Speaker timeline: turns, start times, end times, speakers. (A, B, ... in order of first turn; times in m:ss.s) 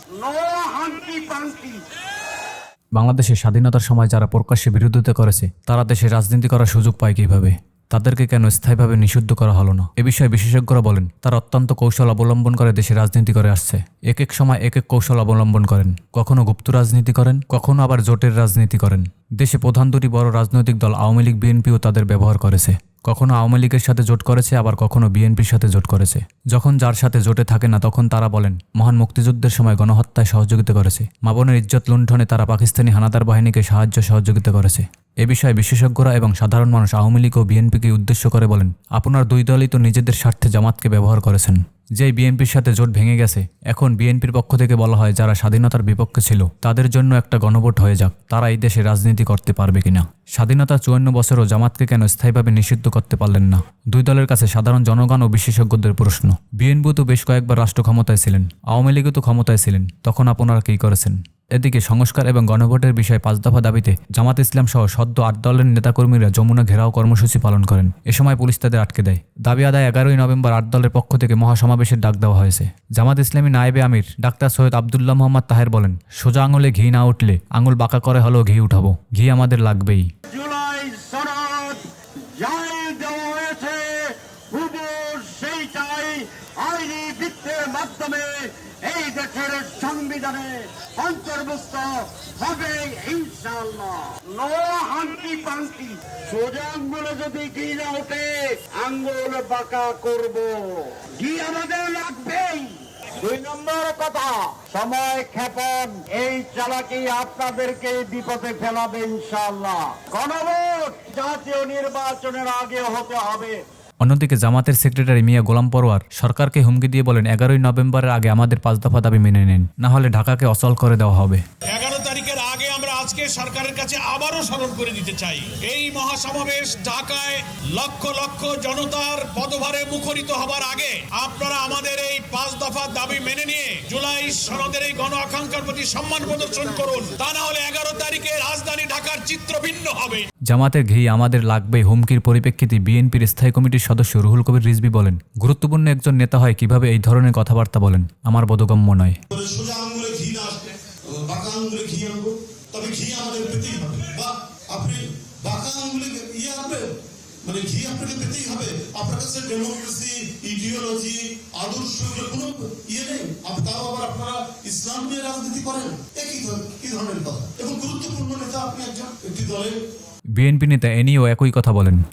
0:00.2-0:01.8 A
0:03.0-1:20.1 B
1:20.3-1:21.8 A
1:22.4-1:53.6 A
1:54.0-2:01.4 B
2:01.7-2:20.3 C
2:20.5-2:29.2 B
2:29.3-2:36.8 D
2:37.4-2:49.7 D
2:50.4-2:52.0 B